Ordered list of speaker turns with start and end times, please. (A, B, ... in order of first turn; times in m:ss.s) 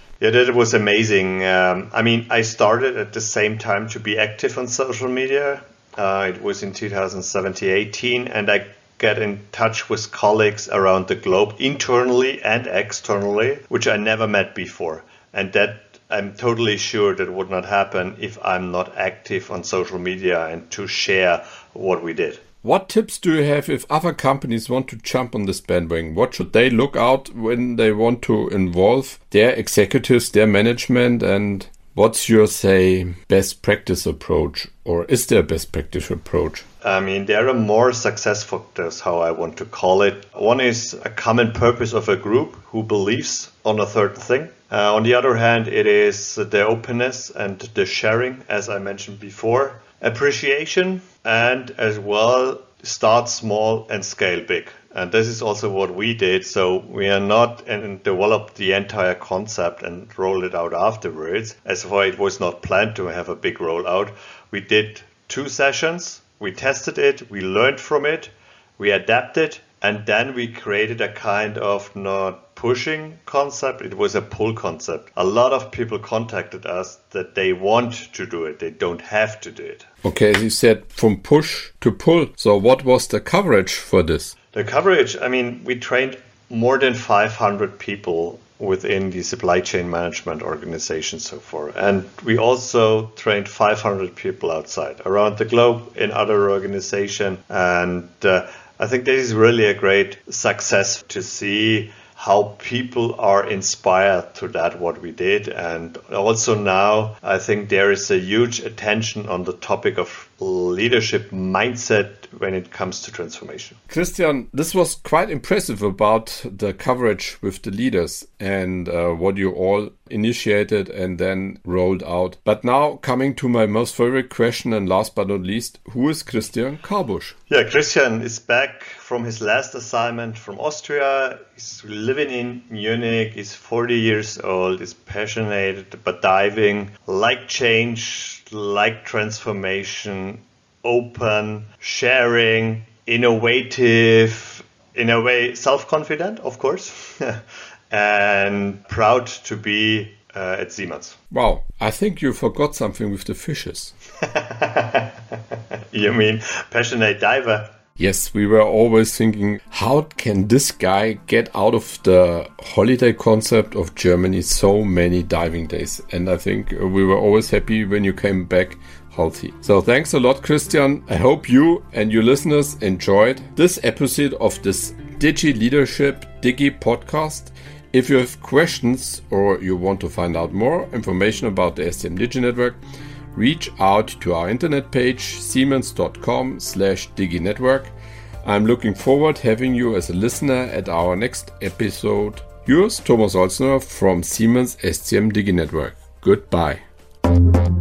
0:00.2-0:22.4 A
0:22.6-0:36.6 B
0:36.8-1:19.9 A
1:20.0-1:24.3 B
1:24.5-1:53.8 A
1:53.9-2:07.3 B
2:07.5-2:31.2 A
2:31.3-2:33.9 B
2:34.2-2:35.1 A
2:35.9-2:37.7 A
2:38.0-3:02.8 B
3:03.3-3:16.8 B